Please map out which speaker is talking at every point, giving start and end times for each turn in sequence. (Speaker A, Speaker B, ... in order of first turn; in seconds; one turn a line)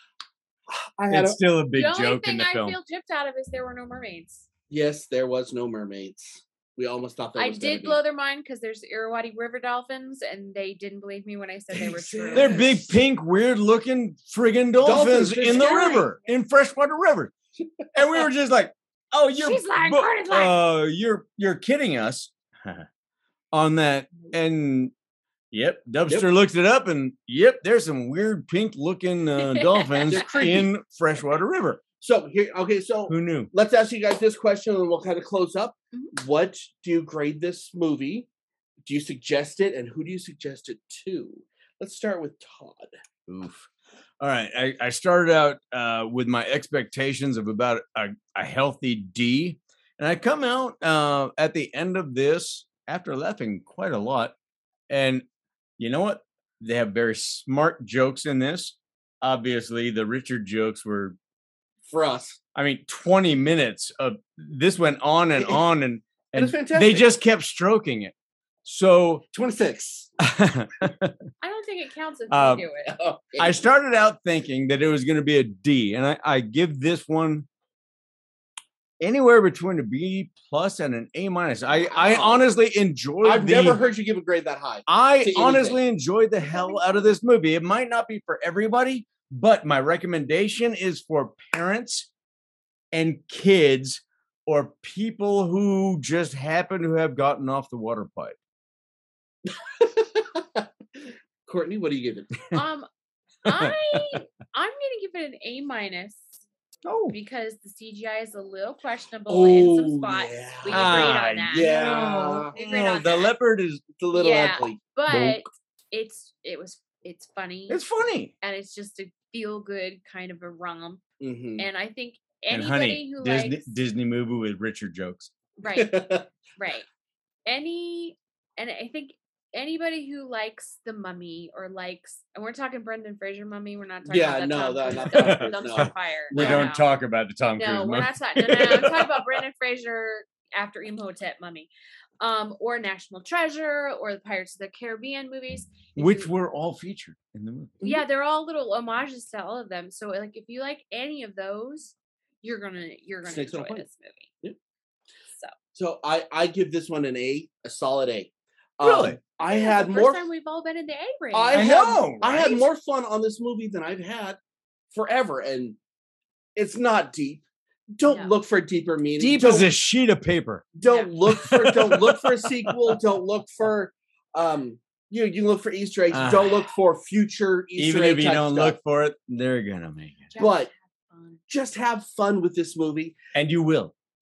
Speaker A: 0.7-1.4
Speaker B: 1.1-2.8
Speaker C: 1.7-4.5
Speaker A: 4.7-8.0
Speaker C: 7.4-12.7
Speaker A: 11.7-12.9
Speaker B: 12.3-17.3
Speaker A: 14.8-16.1
Speaker C: 15.5-16.1
Speaker B: 17.9-22.9
Speaker C: 19.4-20.6
Speaker B: 23.5-24.9
Speaker B: 25.5-31.8
Speaker C: 29.4-30.4
Speaker A: 30.1-30.7
Speaker A: 32.0-38.3
Speaker B: 33.1-33.5
Speaker A: 38.9-42.9
Speaker B: 43.3-43.7
Speaker B: 44.2-54.4
Speaker B: 54.9-55.2
Speaker B: 55.8-61.2
Speaker A: 61.9-62.4
Speaker B: 62.5-68.1
Speaker A: 65.4-65.6
Speaker A: 66.3-67.1
Speaker B: 68.7-69.3
Speaker A: 69.3-70.1
Speaker B: 70.3-71.1
Speaker C: 71.4-72.9
Speaker B: 72.3-72.7
Speaker A: 72.8-73.6
Speaker B: 73.4-77.5
Speaker B: 79.0-83.8
Speaker A: 81.8-82.5
Speaker A: 83.2-85.8
Speaker B: 84.9-92.1
Speaker C: 86.4-87.1
Speaker B: 92.9-98.3
Speaker A: 99.8-100.7
Speaker A: 101.5-102.4
Speaker C: 102.5-102.9
Speaker C: 103.5-106.4
Speaker B: 103.5-104.0
Speaker B: 106.8-107.2
Speaker C: 107.1-111.9
Speaker A: 109.3-112.5
Speaker B: 110.7-113.8
Speaker C: 112.5-113.3
Speaker A: 114.0-114.8
Speaker C: 114.1-117.8
Speaker B: 115.1-115.5
Speaker B: 117.7-118.3
Speaker C: 118.4-121.0
Speaker A: 121.2-121.7
Speaker C: 121.6-123.7
Speaker B: 122.5-125.3
Speaker C: 125.6-126.9
Speaker A: 125.7-126.2
Speaker C: 127.5-136.9
Speaker A: 134.1-136.7
Speaker B: 135.1-139.2
Speaker C: 137.6-146.3
Speaker B: 146.0-147.8
Speaker C: 147.8-154.3
Speaker A: 153.2-153.9
Speaker A: 155.7-160.2
Speaker B: 158.8-159.2
Speaker C: 159.4-161.7
Speaker A: 161.3-164.4
Speaker B: 161.5-162.7
Speaker A: 164.9-165.8
Speaker A: 166.6-169.7
Speaker C: 168.1-168.3
Speaker B: 169.2-170.7
Speaker A: 170.8-178.8
Speaker C: 170.8-171.1
Speaker B: 171.3-173.0
Speaker B: 176.1-176.7
Speaker B: 177.8-180.3
Speaker C: 180.3-181.4
Speaker A: 180.4-180.7
Speaker A: 181.5-183.2
Speaker B: 183.3-183.9